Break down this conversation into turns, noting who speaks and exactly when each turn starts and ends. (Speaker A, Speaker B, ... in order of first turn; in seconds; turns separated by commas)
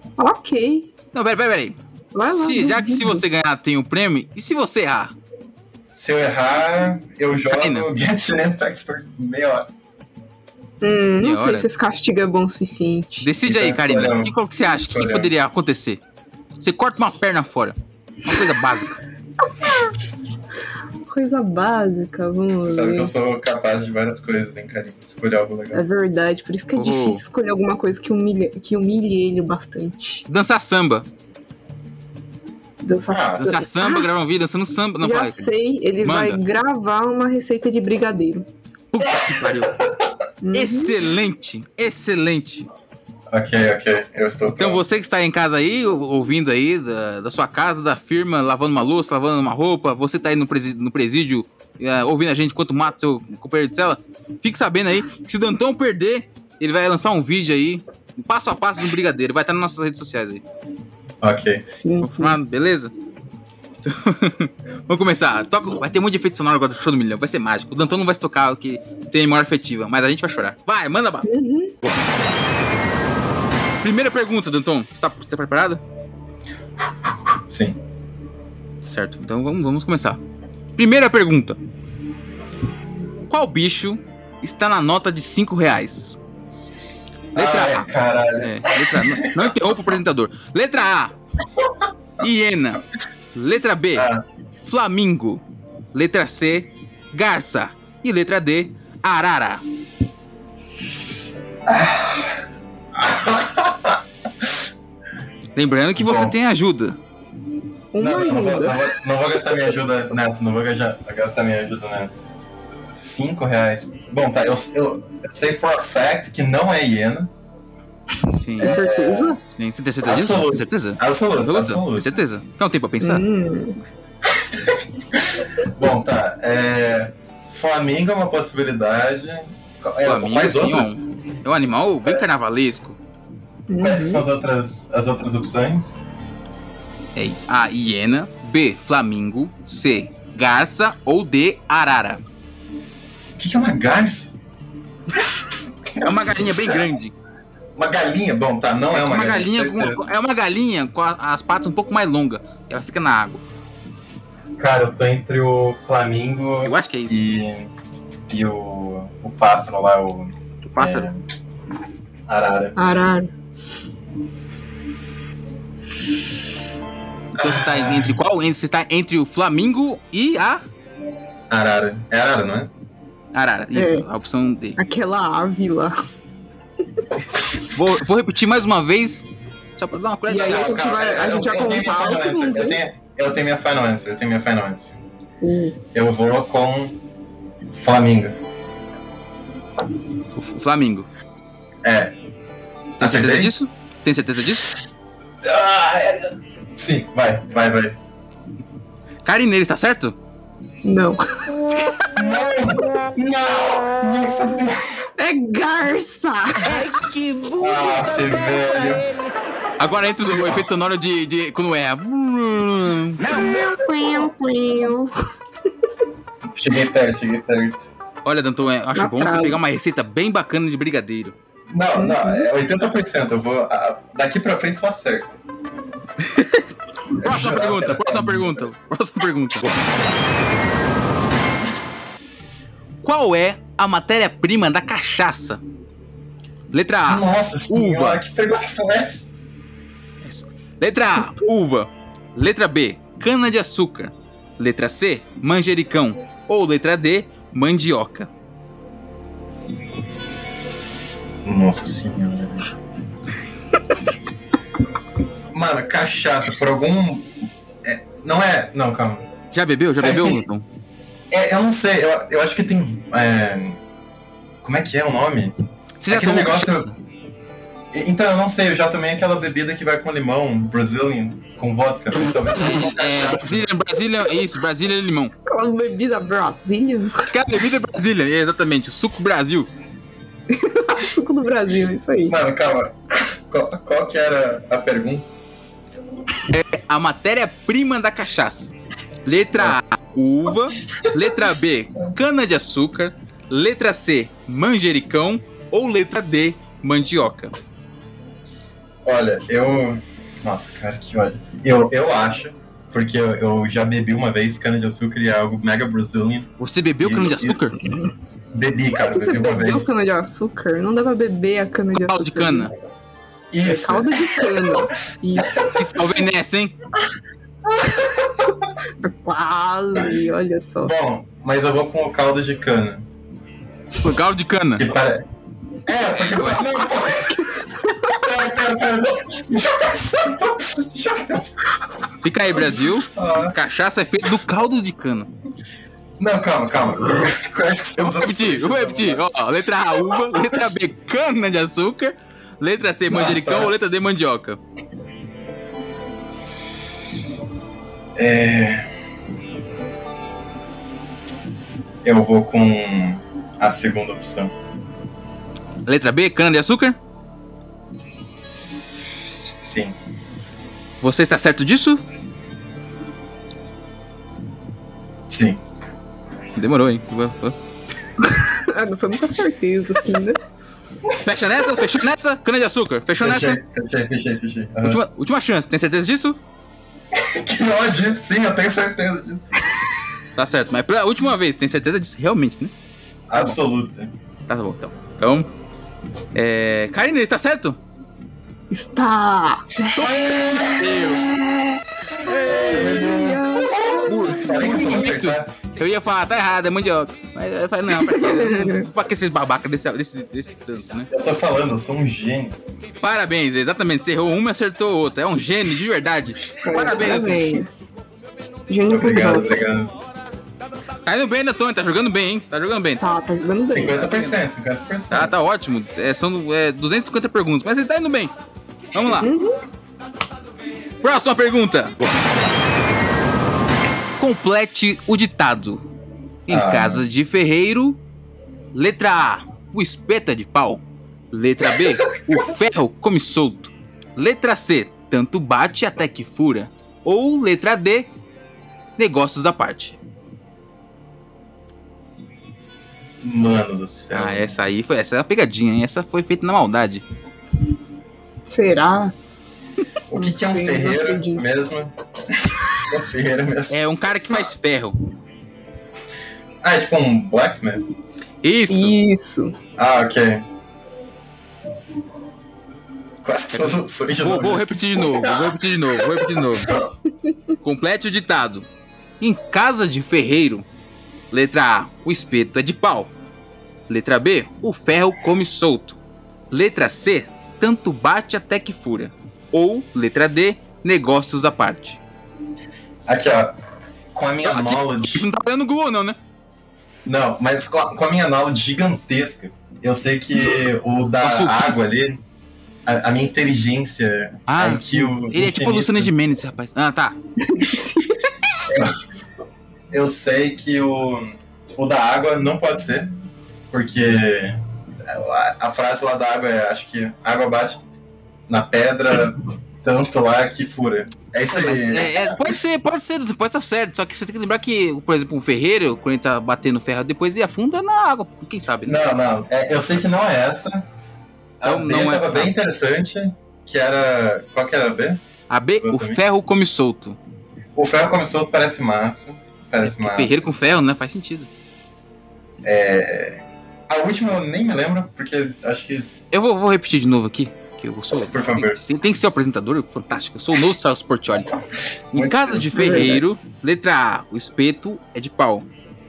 Speaker A: 0.2-0.9, Speaker B: 1.1-5.1, Speaker A: 2.1-3.2, Speaker C: 5.9-9.7, Speaker B: 7.5-7.9, Speaker A: 10.8-13.3, Speaker B: 11.2-11.7, Speaker B: 13.2-16.0, Speaker C: 13.4-15.3, Speaker B: 16.6-19.0, Speaker A: 21.1-23.1, Speaker C: 22.6-25.8, Speaker A: 25.7-30.2, Speaker B: 26.8-27.2, Speaker B: 30.3-31.1, Speaker A: 32.8-34.1, Speaker C: 33.1-33.5, Speaker B: 33.4-35.5, Speaker A: 35.0-38.5, Speaker B: 36.0-36.4, Speaker B: 38.9-39.8, Speaker A: 40.4-41.0, Speaker B: 40.5-42.7, Speaker C: 43.3-44.8, Speaker B: 44.6-60.4, Speaker C: 61.2-61.7, Speaker A: 61.7-62.4, Speaker B: 62.0-62.9, Speaker B: 63.8-71.3, Speaker A: 71.3-71.7, Speaker B: 73.8-75.8, Speaker C: 77.5-77.8, Speaker B: 78.8-80.2, Speaker B: 80.8-81.6, Speaker B: 83.3-86.2, Speaker C: 87.3-89.8, Speaker B: 87.3-87.9, Speaker B: 88.4-91.1, Speaker B: 92.2-92.8, Speaker B: 93.3-94.1, Speaker C: 94.0-94.2, Speaker B: 94.6-95.4, Speaker B: 95.9-99.6, Speaker C: 101.7-102.3, Speaker C: 103.0-104.0, Speaker B: 105.6-107.0, Speaker C: 106.0-106.4, Speaker A: 107.9-108.9, Speaker C: 108.0-112.3, Speaker C: 112.9-117.3, Speaker B: 118.4-118.8, Speaker A: 118.6-119.4, Speaker C: 118.6-119.4, Speaker B: 119.5-123.2, Speaker C: 120.0-122.2, Speaker A: 123.0-123.8, Speaker C: 125.1-131.0, Speaker B: 130.0-133.0, Speaker A: 133.7-134.2, Speaker C: 133.8-136.0, Speaker B: 137.2-142.2, Speaker C: 143.4-144.3, Speaker C: 145.9-146.9, Speaker B: 146.0-147.1, Speaker C: 147.8-150.1, Speaker B: 148.9-153.4, Speaker C: 154.6-157.7, Speaker B: 156.6-157.2, Speaker C: 158.3-161.2, Speaker B: 160.6-161.1, Speaker C: 162.3-162.8, Speaker A: 162.8-163.3, Speaker C: 167.4-168.2, Speaker B: 167.4-170.6, Speaker C: 171.5-172.7, Speaker B: 173.3-174.8, Speaker A: 173.7-174.1, Speaker A: 174.8-175.9, Speaker B: 177.7-180.7, Speaker A: 180.3-182.8, Speaker C: 180.3-184.9, Speaker A: 185.4-185.8, Speaker C: 185.9-187.0, Speaker C: 187.7-188.4, Speaker B: 190.3-191.1, Speaker C: 191.8-192.2, Speaker B: 193.0-194.7, Speaker C: 193.0-193.5, Speaker C: 195.4-198.0, Speaker B: 199.2-200.2, Speaker A: 200.8-201.2, Speaker C: 202.1-205.1, Speaker A: 205.2-206.8, Speaker D: 206.8-209.2, Speaker C: 207.6-209.1, Speaker B: 209.8-213.2, Speaker A: 213.3-215.1, Speaker C: 216.5-217.9, Speaker B: 218.2-221.4, Speaker A: 218.9-219.6, Speaker C: 221.7-225.4, Speaker A: 221.9-222.4, Speaker B: 226.2-229.7, Speaker C: 227.2-228.6, Speaker B: 233.0-235.6, Speaker B: 236.7-238.2, Speaker C: 237.1-239.4, Speaker B: 240.2-248.3, Speaker C: 251.4-252.7, Speaker C: 255.5-257.3, Speaker C: 257.8-259.3, Speaker B: 259.5-260.6, Speaker C: 260.0-260.4, Speaker C: 261.3-263.8, Speaker C: 264.6-265.6, Speaker B: 266.0-266.9, Speaker C: 266.1-266.9, Speaker C: 267.9-273.7, Speaker B: 272.6-275.3, Speaker A: 275.4-277.2, Speaker B: 277.3-279.7, Speaker A: 280.5-282.4, Speaker C: 282.3-285.3, Speaker B: 286.5-288.7, Speaker B: 289.2-297.5, Speaker C: 299.0-307.6, Speaker B: 306.6-307.8, Speaker C: 308.5-309.9, Speaker A: 309.0-312.7, Speaker B: 311.9-312.7, Speaker C: 313.5-314.4, Speaker A: 313.6-315.8, Speaker C: 315.4-315.6, Speaker B: 315.7-316.7, Speaker A: 319.0-320.9, Speaker C: 320.8-323.1, Speaker B: 324.0-324.9, Speaker C: 324.8-325.3, Speaker C: 325.9-327.5, Speaker B: 326.1-326.6, Speaker A: 327.4-328.2, Speaker C: 328.1-331.6, Speaker B: 332.2-335.3, Speaker C: 332.6-333.6, Speaker C: 336.2-339.2, Speaker B: 338.0-344.6, Speaker C: 340.1-340.6, Speaker C: 343.1-343.8, Speaker C: 348.2-348.9, Speaker C: 352.0-354.5, Speaker B: 355.9-357.0, Speaker C: 359.6-359.9, Speaker B: 361.0-362.0, Speaker C: 365.3-365.6, Speaker B: 366.6-367.6, Speaker A: 368.2-370.4, Speaker B: 371.1-373.6, Speaker C: 373.2-375.0, Speaker B: 374.8-376.4, Speaker C: 377.1-379.6, Speaker B: 380.4-382.7, Speaker C: 383.3-384.1, Speaker B: 384.5-385.5, Speaker B: 386.3-387.8, Speaker A: 388.7-394.9, Speaker C: 389.9-391.1, Speaker B: 390.8-391.3, Speaker B: 392.3-393.0, Speaker C: 392.3-395.5, Speaker B: 394.1-401.1, Speaker A: 397.9-398.9, Speaker C: 401.1-402.6, Speaker B: 403.0-407.9, Speaker A: 406.6-407.7, Speaker A: 408.7-409.6, Speaker C: 408.9-409.9, Speaker B: 411.1-413.0, Speaker A: 413.0-414.3, Speaker C: 413.7-415.3, Speaker B: 415.1-418.3, Speaker B: 418.9-419.3, Speaker A: 419.1-419.6, Speaker B: 421.0-421.9, Speaker B: 424.2-425.8, Speaker B: 426.5-428.0, Speaker C: 426.5-427.1, Speaker B: 428.7-438.1, Speaker B: 439.0-440.0, Speaker C: 443.2-444.5, Speaker B: 444.1-447.1, Speaker A: 448.4-449.1, Speaker C: 450.1-453.8, Speaker A: 450.1-451.4, Speaker B: 453.7-454.9, Speaker C: 456.6-457.8, Speaker B: 458.4-458.9, Speaker A: 458.7-459.6, Speaker C: 459.8-460.4, Speaker C: 463.2-466.9, Speaker B: 463.5-466.7, Speaker B: 467.6-468.7, Speaker B: 469.2-470.7, Speaker B: 471.3-473.1, Speaker B: 473.9-476.0, Speaker B: 476.5-482.0, Speaker C: 483.1-483.6, Speaker C: 484.1-485.3, Speaker B: 484.4-486.2, Speaker C: 487.1-492.2, Speaker B: 491.2-491.8, Speaker C: 492.9-496.1, Speaker B: 494.5-497.2, Speaker A: 497.4-498.3, Speaker C: 498.7-499.0, Speaker C: 499.9-503.1, Speaker C: 503.7-507.9, Speaker C: 508.5-512.6, Speaker B: 511.5-519.0, Speaker C: 518.8-520.9, Speaker C: 521.6-525.2, Speaker B: 521.6-522.5, Speaker B: 525.5-527.2, Speaker C: 525.8-526.2, Speaker C: 527.8-530.5, Speaker B: 529.8-531.5, Speaker C: 532.6-536.1, Speaker B: 536.3-541.5, Speaker C: 538.1-538.8, Speaker C: 542.1-543.2, Speaker B: 542.1-545.7, Speaker A: 542.8-543.2